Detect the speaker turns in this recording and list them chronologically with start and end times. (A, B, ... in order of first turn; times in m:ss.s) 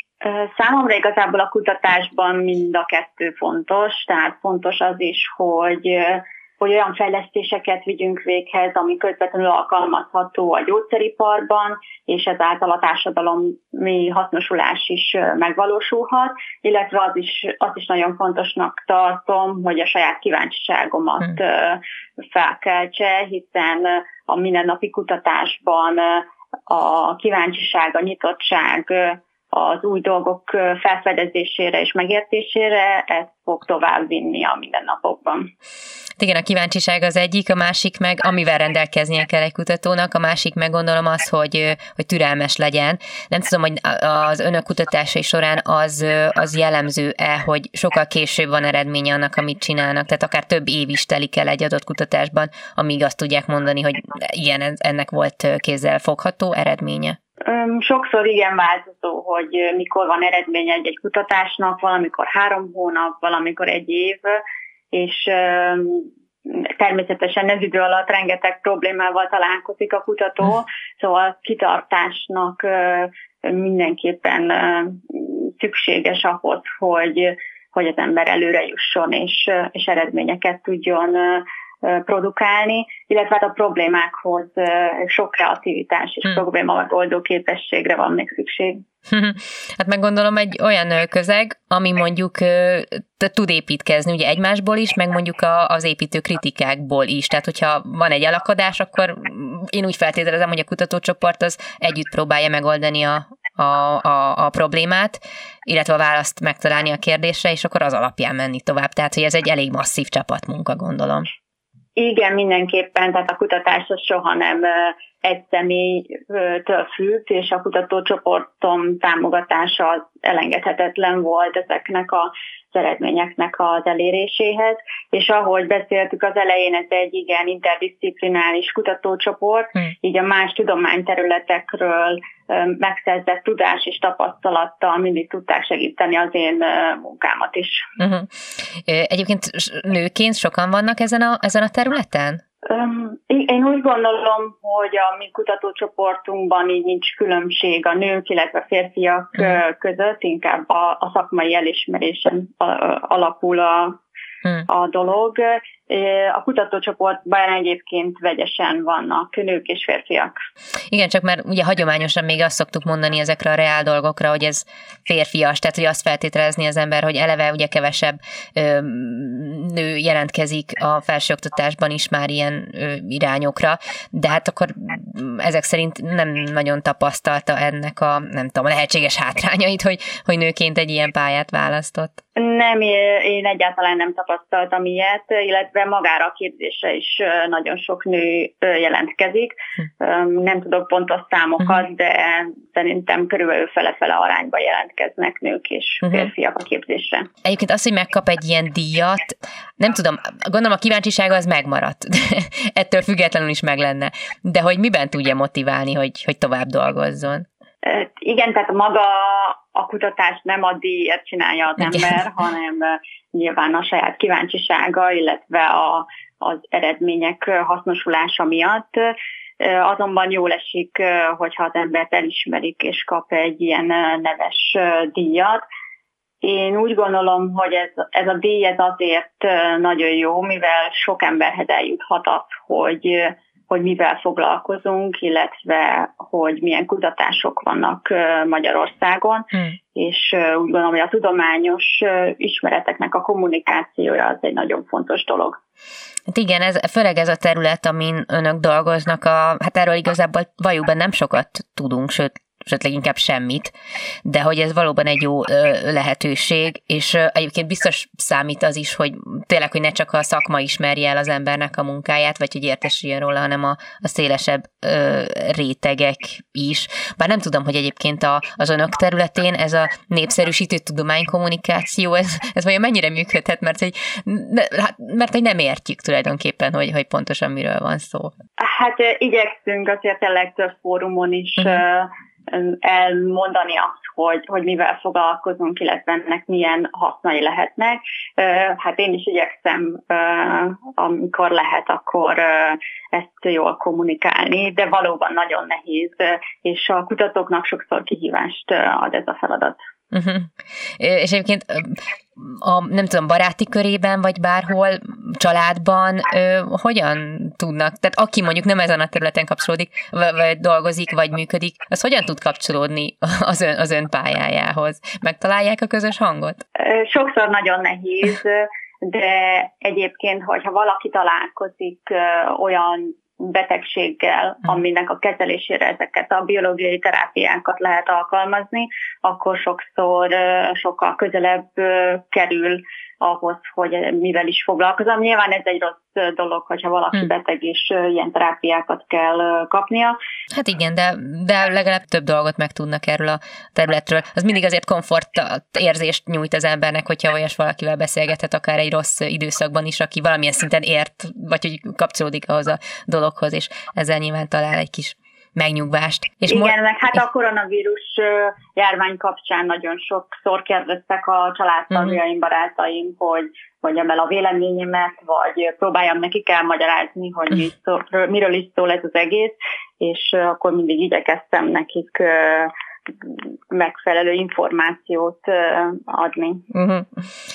0:00.2-0:35.5 A
0:36.2-0:57.2 B
0:57.4-1:04.4 A
1:04.9-1:28.8 A
1:29.1-1:51.3 B
1:52.0-2:17.9 A
2:18.0-2:18.3 B
2:18.9-2:22.4 B
2:22.7-2:34.0 A
2:34.7-2:40.3 A
2:40.9-3:02.2 B
3:02.4-3:17.3 A
3:17.4-3:27.5 B
3:27.8-3:45.6 A
3:46.4-4:05.6 A
4:06.3-4:13.7 B
4:14.2-4:38.3 B
4:38.6-4:59.8 A
5:00.1-5:16.6 B
5:16.8-5:40.2 A
5:40.5-5:56.7 B
5:56.5-6:16.6 A
6:16.7-6:17.2 B